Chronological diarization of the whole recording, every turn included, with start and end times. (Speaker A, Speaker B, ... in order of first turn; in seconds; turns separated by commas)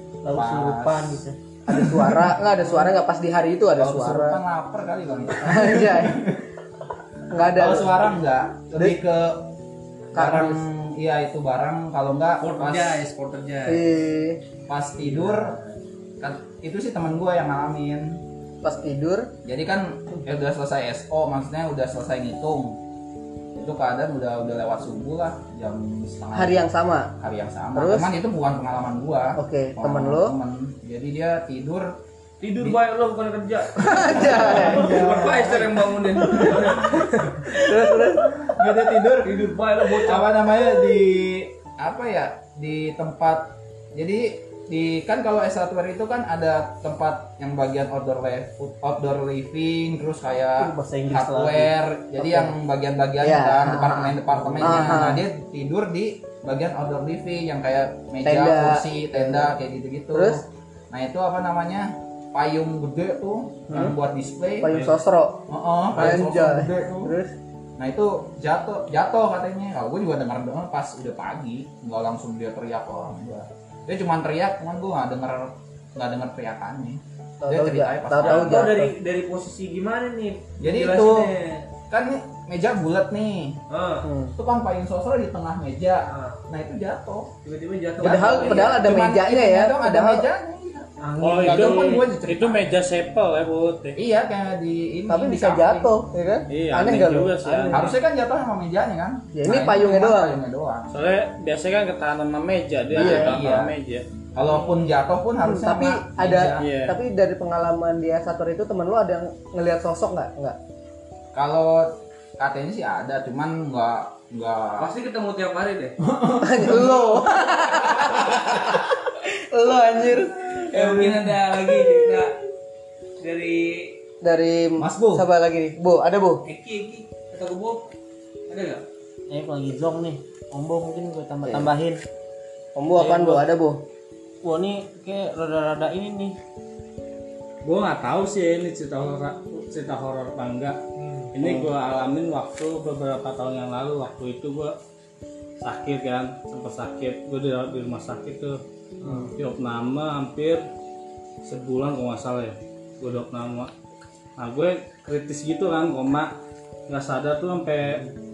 Speaker A: 0.2-1.4, Speaker B: 0.3-2.4, Speaker C: 1.7-4.4, Speaker B: 3.8-6.4, Speaker C: 5.4-6.3, Speaker C: 7.3-8.1, Speaker B: 7.4-9.5, Speaker B: 10.1-13.1, Speaker C: 10.1-10.6, Speaker D: 12.4-13.8, Speaker C: 13.6-14.4, Speaker B: 14.7-15.6, Speaker D: 15.1-15.6, Speaker B: 16.2-18.2, Speaker C: 18.6-19.3, Speaker B: 19.4-22.8, Speaker B: 23.5-26.6, Speaker C: 26.3-27.1, Speaker B: 27.2-32.0, Speaker C: 27.7-28.2, Speaker C: 29.4-30.4, Speaker D: 32.4-37.0, Speaker C: 33.7-35.1, Speaker E: 33.8-35.6, Speaker B: 34.0-36.8, Speaker C: 36.6-38.4, Speaker B: 38.2-64.8, Speaker D: 39.2-40.4, Speaker A: 50.6-51.7, Speaker C: 52.2-52.5, Speaker C: 53.2-55.2, Speaker C: 58.2-59.5, Speaker C: 60.1-60.4, Speaker C: 63.7-64.0, Speaker C: 64.6-67.3, Speaker B: 65.5-67.1, Speaker B: 67.8-78.7, Speaker C: 77.4-78.9, Speaker D: 78.2-81.7, Speaker B: 80.6-81.3, Speaker B: 81.9-83.6, Speaker D: 83.7-84.1, Speaker C: 84.0-84.3, Speaker B: 84.3-87.3, Speaker D: 86.1-86.4, Speaker D: 87.4-88.8, Speaker B: 88.0-92.7, Speaker C: 88.0-90.3, Speaker A: 91.0-92.0, Speaker E: 91.2-94.0, Speaker B: 94.0-95.9, Speaker C: 95.1-97.8, Speaker E: 96.5-97.8, Speaker B: 97.7-100.9, Speaker C: 99.3-100.4, Speaker E: 100.9-104.0, Speaker B: 102.9-103.7, Speaker C: 102.9-103.4, Speaker B: 104.3-106.7, Speaker C: 105.4-110.6, Speaker E: 106.6-107.0, Speaker B: 111.3-114.9, Speaker D: 114.8-116.0, Speaker B: 116.0-118.6, Speaker C: 116.4-121.2, Speaker D: 120.7-122.3, Speaker D: 123.2-123.9, Speaker C: 124.2-126.4, Speaker B: 124.8-125.2, Speaker D: 126.4-127.8, Speaker D: 128.5-128.8, Speaker A: 129.3-132.0, Speaker C: 131.4-131.7, Speaker C: 132.7-133.8, Speaker A: 133.0-133.4, Speaker A: 134.4-136.3, Speaker E: 137.6-140.8, Speaker E: 141.3-144.8, Speaker C: 141.4-141.7, Speaker E: 145.6-150.6, Speaker E: 151.4-153.7, Speaker E: 154.4-156.3, Speaker E: 156.9-158.0